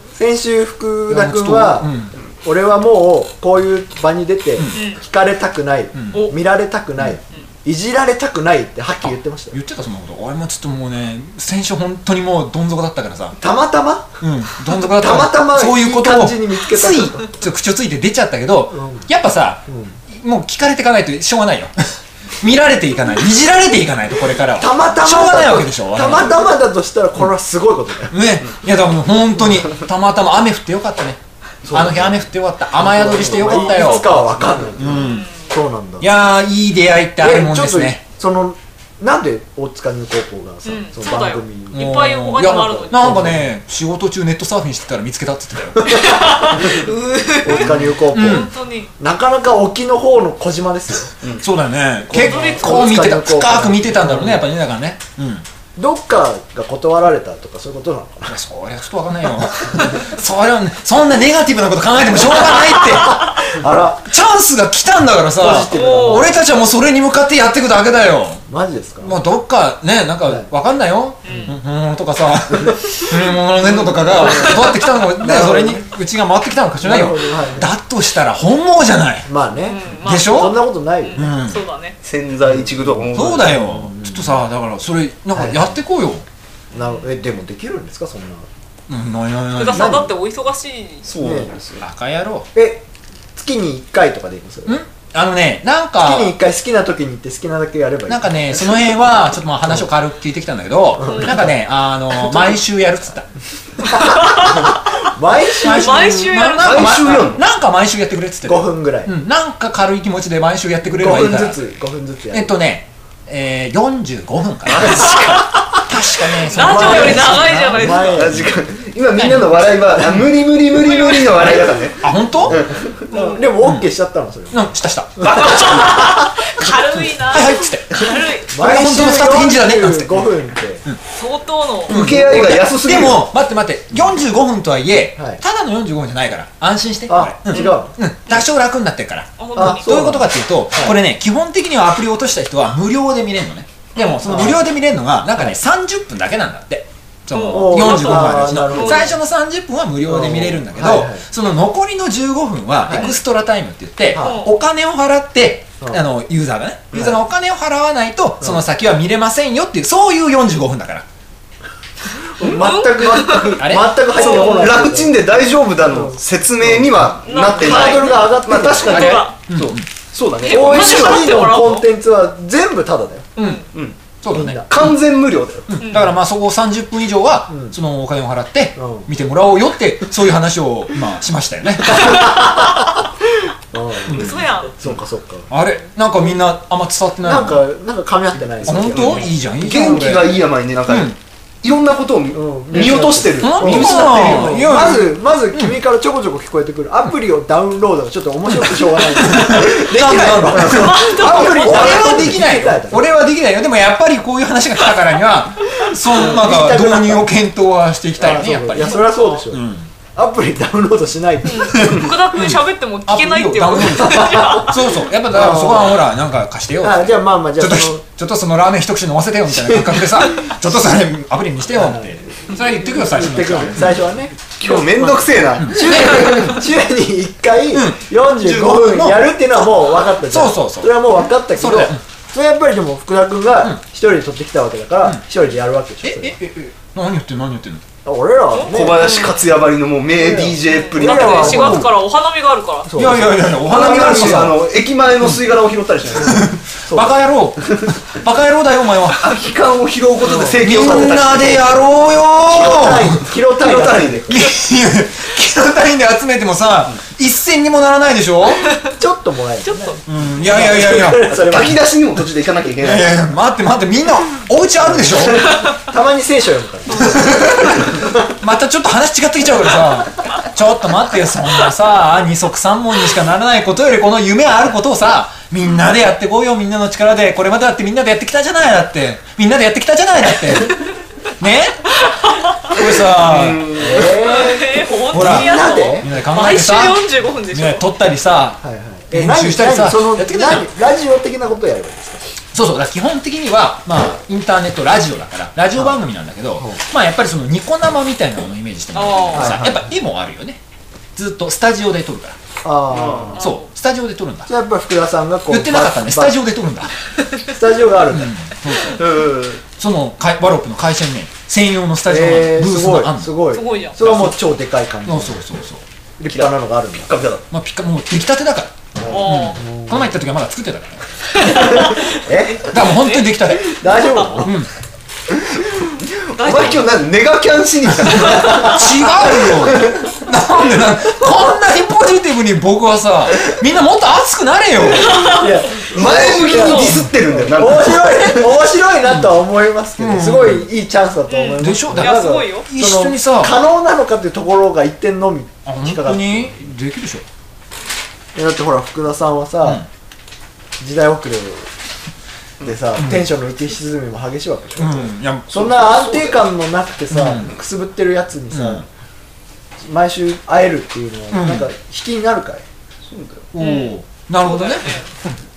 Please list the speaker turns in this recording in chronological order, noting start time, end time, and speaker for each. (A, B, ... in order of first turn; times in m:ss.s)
0:00.2-0:09.6 A
0:01.1-0:02.1 B
0:04.6-0:04.8 B
0:04.7-0:05.0 C
0:06.0-0:06.2 B
0:09.0-0:13.4 B
0:13.4-0:14.2 A
0:14.2-0:26.4 B
0:14.7-0:17.3 A
0:18.7-0:19.1 A
0:19.7-0:20.0 A
0:24.6-0:28.2 A
0:28.1-0:31.2 B
0:31.6-0:36.1 A
0:31.7-0:35.3 B
0:34.9-0:35.5 C
0:36.0-0:38.0 B
0:37.2-0:43.5 A
0:40.7-0:43.3 C
0:41.7-0:46.0 B
0:45.9-0:48.9 C
0:45.9-0:46.8 A
0:47.4-0:51.1 A
0:47.6-0:48.5 B
0:51.4-0:55.4 B
0:52.1-0:54.5 A
0:52.1-0:52.8 C
0:55.8-0:58.4 A
0:58.3-1:03.4 B
1:02.7-1:04.1 A
1:04.0-1:08.4 B
1:05.4-1:06.4 A
1:05.6-1:06.3 C
1:08.5-1:09.2 A
1:09.0-1:19.3 B
1:11.2-1:11.6 C
1:12.6-1:13.0 A
1:13.7-1:15.9 A
1:14.3-1:14.9 C
1:16.8-1:17.7 A
1:19.3-1:21.3 A
1:19.6-1:22.0 C
1:20.0-1:20.6 B
1:21.2-1:21.6 B
1:22.0-1:23.6 D
1:22.5-1:24.4 A
1:23.1-1:26.2 B
1:25.3-1:25.8 A
1:26.7-1:28.5 A
1:26.7-1:27.0 C
1:28.9-1:30.1 B
1:29.5-1:31.1 C
1:29.7-1:30.1 A
1:31.0-1:31.8 D
1:31.2-1:31.5 A
1:31.8-1:32.5 B
1:32.5-1:34.8 A
1:34.7-1:36.4 B
1:36.0-1:38.8 A
1:38.1-1:43.3 B
1:41.0-1:41.5 A
1:41.1-1:41.3 C
1:42.3-1:42.5 A
1:43.9-1:46.3 A
1:43.9-1:44.8 C
1:45.6-1:47.2 C
1:45.6-1:51.6 B
1:46.6-1:47.4 D
1:48.4-1:49.1 A
1:50.8-1:52.6 A
1:52.3-1:58.5 B
1:54.7-1:55.6 D
1:54.8-1:55.8 C
1:56.4-1:58.2 C
1:56.5-1:58.5 A
1:58.0-2:03.1 D
1:59.2-1:59.6 B
2:00.7-2:01.5 C
2:01.4-2:02.6 B
2:03.1-2:03.5 C
2:03.1-2:04.7 A
2:03.6-2:03.9 B
2:04.5-2:05.6 B
2:05.2-2:08.5 C
2:05.4-2:05.9 D
2:07.2-2:10.3 B
2:08.5-2:10.8 A
2:11.1-2:12.0 C
2:11.9-2:13.3 D
2:11.9-2:41.1 B
2:15.2-2:15.4 A
2:17.1-2:17.9 A
2:17.5-2:17.8 C
2:19.4-2:19.9 C
2:19.6-2:21.0 A
2:24.2-2:24.6 A
2:27.3-2:29.1 C
2:27.5-2:29.2 A
2:30.1-2:31.2 A
2:32.9-2:33.1 A
2:34.1-2:34.5 A
2:34.2-2:34.5 C
2:42.3-2:45.2 A
2:42.4-2:44.8 C
2:43.6-2:44.0 B
2:44.1-2:51.4 D
2:45.8-2:49.2 A
2:47.2-2:49.4 C
2:49.5-2:49.9 B
2:50.4-2:51.9 C
2:50.4-2:53.3 A
2:53.4-2:53.7 C
2:53.4-2:53.6 B
2:53.7-2:54.0 D
2:54.2-2:54.9 B
2:54.3-2:54.7 A
2:54.6-2:55.8 D
2:55.7-3:02.3 B
2:55.8-2:56.1 C
2:57.5-2:57.8 A
2:58.8-2:59.1 A
3:01.9-3:02.9 A
3:03.7-3:05.5 A
3:04.1-3:04.8 C
3:04.1-3:04.5 B
3:05.5-3:07.6 B
3:07.2-3:10.1 A
3:08.6-3:11.2 B
3:08.6-3:15.1 D
3:12.3-3:23.1 A
3:13.4-3:15.8 B
3:18.5-3:29.9 B
3:20.2-3:22.2 D
3:20.6-3:22.0 C
3:26.0-3:27.3 A
3:28.2-3:32.1 A
3:28.9-3:29.4 C
3:31.4-3:34.9 C
3:31.7-3:44.0 B
3:34.0-3:34.7 A
3:35.3-3:36.0 A
3:36.8-3:38.0 A
3:39.5-3:40.6 A
3:41.7-3:56.4 A
3:44.6-3:46.6 D
3:45.6-3:46.6 B
3:47.7-3:49.4 B
3:50.3-3:52.0 B
3:56.0-3:57.8 B
3:58.0-3:59.1 A
3:58.5-3:59.6 C
3:58.6-4:01.8 D
4:00.2-4:01.9 A
4:00.6-4:02.9 C
4:01.5-4:01.9 B
4:02.9-4:03.5 A
4:03.0-4:04.6 B
4:03.6-4:06.5 D
4:06.2-4:09.3 B
4:06.9-4:07.2 A
4:09.2-4:11.8 D
4:10.2-4:11.2 A
4:10.6-4:13.3 B
4:12.5-4:14.5 A
4:13.4-4:14.5 D
4:14.3-4:18.7 B
4:19.0-4:21.9 A
4:19.6-4:20.0 C
4:20.1-4:21.3 B
4:21.3-4:23.2 D
4:22.8-4:25.5 B
4:24.8-4:28.3 A
4:27.0-4:27.7 B
4:28.4-4:40.9 B
4:41.4-4:41.9 B
4:42.0-4:42.8 C
4:42.6-4:43.7 B
4:43.1-4:44.5 D
4:43.7-4:46.1 A
4:44.0-4:47.9 C
4:45.1-4:50.7 B
4:48.6-4:52.3 A
4:52.5-5:00.6 B
4:56.6-4:56.8 A
4:58.9-4:59.6 C
4:59.3-4:59.9 A
5:01.2-5:02.4 B
5:02.6-5:03.4 A
5:02.9-5:03.4 D
5:03.4-5:03.7 C
5:03.4-5:04.5 B
5:04.5-5:06.4 A
5:05.5-5:06.9 B
5:07.5-5:08.3 A
5:08.1-5:09.1 B
5:08.9-5:09.6 D
5:09.8-5:13.3 B
5:12.1-5:15.4 A
5:13.5-5:14.0 C
5:14.0-5:14.4 B
5:15.1-5:15.8 B
5:16.2-5:17.1 A
5:16.3-5:17.4 D
5:17.5-5:21.0 B
5:19.0-5:20.2 A
5:19.1-5:19.6 C
5:21.3-5:23.5 C
5:21.4-5:22.7 A
5:22.7-5:23.8 B
5:23.6-5:24.6 A
5:24.4-5:24.7 B
5:25.6-5:30.0 D
5:26.4-5:26.9 C
5:28.3-5:35.4 B
5:34.9-5:37.0 C
5:35.3-5:46.6 A
5:35.9-5:38.5 D
5:39.1-5:39.4 B
5:40.0-5:40.7 B
5:41.3-5:42.7 C
5:41.6-5:43.6 B
5:45.7-5:47.2 B
5:48.4-5:49.8 A
5:50.8-5:51.7 A
5:52.6-5:58.9 A
5:53.0-5:53.3 B
5:54.8-5:55.8 B
5:55.7-5:56.4 D
5:57.1-5:57.5 B
5:58.5-5:58.8 B
5:59.8-6:02.6 A
6:01.3-6:01.7 B
6:03.0-6:03.5 D
6:03.5-6:05.0 B
6:03.6-6:05.1 C